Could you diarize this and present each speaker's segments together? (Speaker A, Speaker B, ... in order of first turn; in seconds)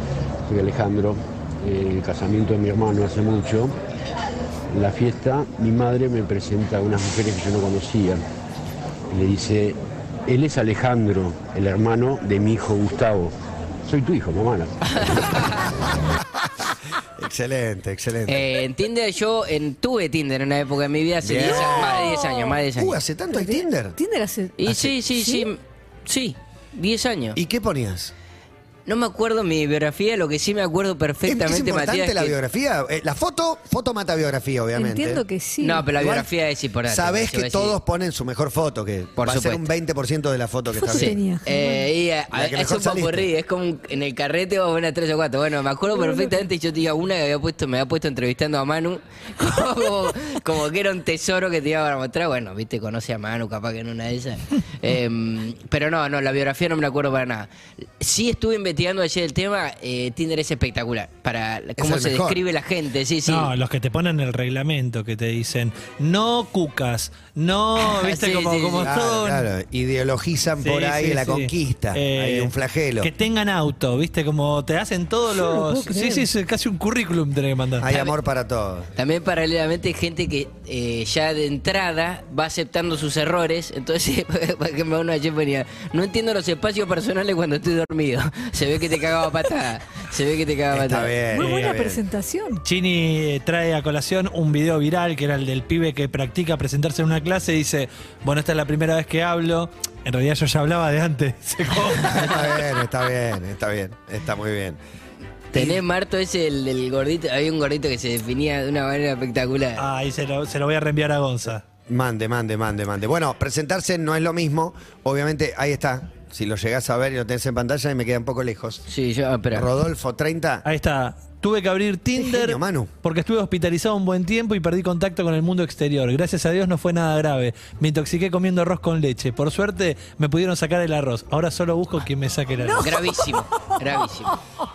Speaker A: 0.5-3.7, 4.7-8.2, 9.1-13.3, 13.8-15.2
Speaker B: 15.0-15.4, 18.3-23.0, 24.6-27.4, 28.9-32.4, 35.6-37.8, 39.2-39.7, 40.9-63.5, 67.9-68.9, 77.9-78.1, 79.0-91.2, 105.5-109.9, 118.9-119.7, 132.8-134.4
Speaker C: 17.2-18.5, 21.2-22.1, 22.7-23.9, 24.6-24.9, 27.3-28.1, 31.2-35.2, 36.0-41.2, 42.3-43.3, 61.8-62.4, 68.8-73.1, 77.8-78.9, 90.7-92.0, 102.1-104.8, 105.5-105.8, 111.9-118.8, 119.5-120.6, 122.2-122.9
Speaker D: 21.4-22.6, 23.3-24.6, 25.1-25.5, 34.7-35.9, 40.7-41.9, 45.9-46.5, 75.3-76.3, 91.3-92.6, 132.6-133.8
Speaker E: 63.3-69.5, 70.6-77.8, 91.4-91.7, 92.6-102.5, 109.8-111.6, 120.6-133.0